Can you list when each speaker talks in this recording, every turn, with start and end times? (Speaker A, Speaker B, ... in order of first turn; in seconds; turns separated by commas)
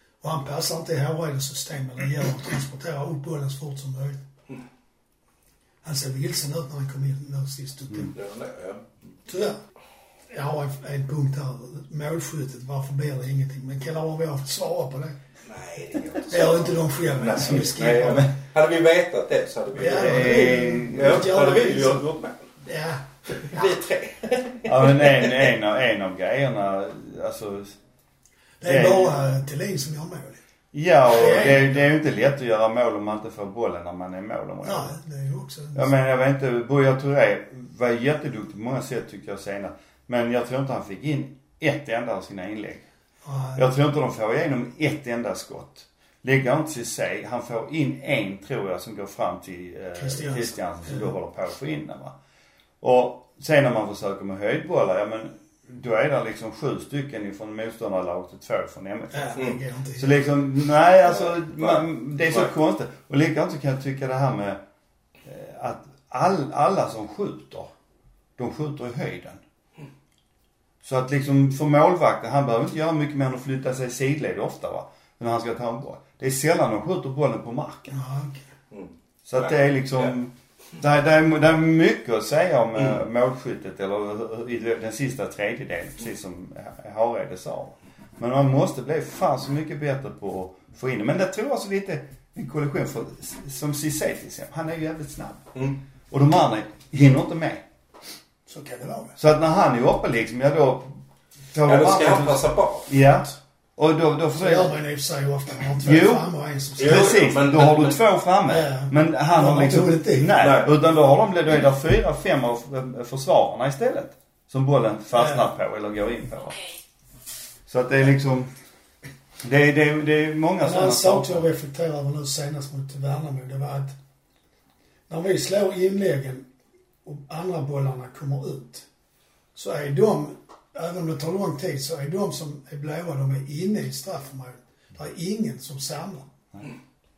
Speaker A: 0.2-4.2, Speaker A: 5.8-8.1, Speaker B: 8.1-8.9, Speaker A: 9.3-9.6, Speaker A: 10.3-15.2, Speaker B: 15.4-22.5, Speaker A: 16.3-18.3, Speaker A: 19.7-22.0, Speaker C: 19.8-21.3, Speaker A: 22.6-23.6, Speaker B: 23.3-25.5, Speaker C: 24.6-27.8, Speaker A: 28.6-30.4, Speaker C: 28.6-29.2, Speaker C: 30.7-34.9, Speaker A: 31.1-31.8, Speaker A: 34.6-35.9, Speaker C: 35.7-42.8, Speaker A: 43.2-43.6, Speaker C: 43.5-52.1, Speaker A: 49.9-51.1, Speaker C: 52.8-59.4, Speaker A: 59.1-60.2, Speaker C: 60.0-64.6, Speaker B: 61.0-62.5, Speaker C: 65.2-67.7, Speaker C: 68.4-69.4, Speaker C: 70.8-77.9, Speaker A: 77.9-78.4, Speaker B: 78.7-80.1, Speaker C: 79.2-95.5, Speaker C: 96.1-97.6, Speaker A: 98.5-99.2, Speaker C: 99.2-101.0, Speaker C: 101.5-104.7, Speaker B: 101.7-103.1, Speaker A: 104.3-107.2, Speaker C: 105.8-106.3, Speaker B: 106.8-108.0, Speaker C: 106.8-116.6, Speaker A: 108.5-110.4, Speaker B: 110.4-110.7, Speaker A: 115.2-115.4, Speaker C: 117.7-118.5, Speaker C: 119.4-121.5, Speaker A: 120.6-123.9, Speaker A: 125.1-126.5, Speaker A: 127.0-128.8, Speaker A: 129.5-136.3